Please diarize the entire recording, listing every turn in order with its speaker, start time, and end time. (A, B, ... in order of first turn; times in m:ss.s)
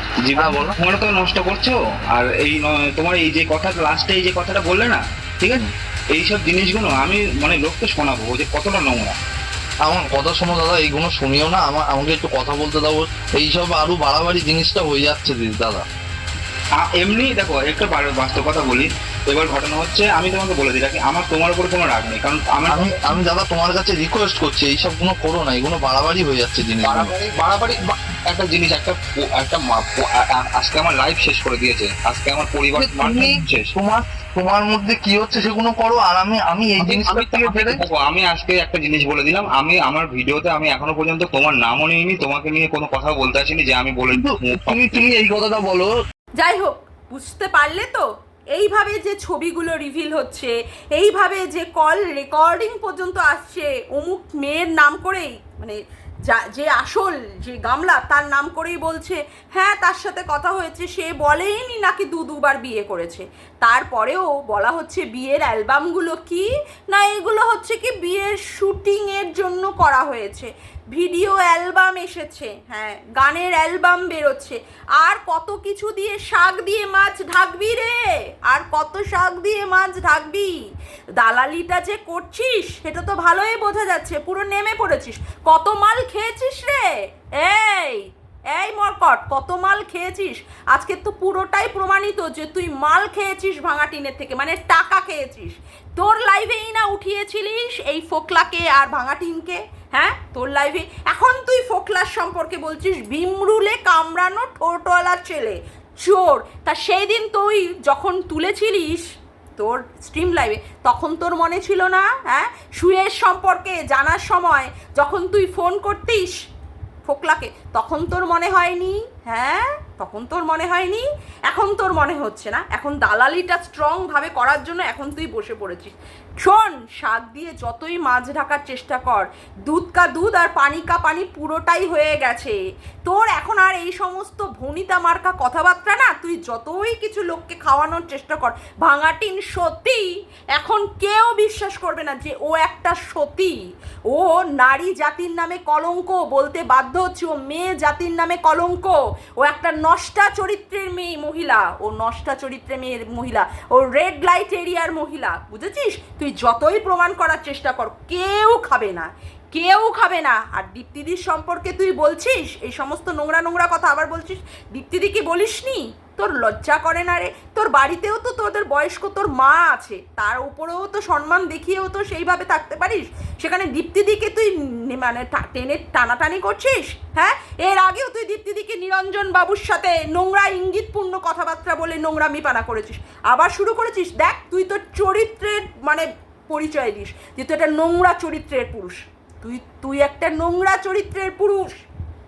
0:00.2-0:09.1 A
0:00.4-0:00.7 B
0:09.8-0:15.8 B
0:16.8-0:23.0 A
0:22.7-0:27.1 B
0:26.8-0:33.7 A
0:32.8-0:37.8 B
0:36.8-0:45.1 A
0:44.1-0:45.9 B
0:46.4-1:20.6 C
1:21.2-1:56.4 C
1:57.0-3:11.8 C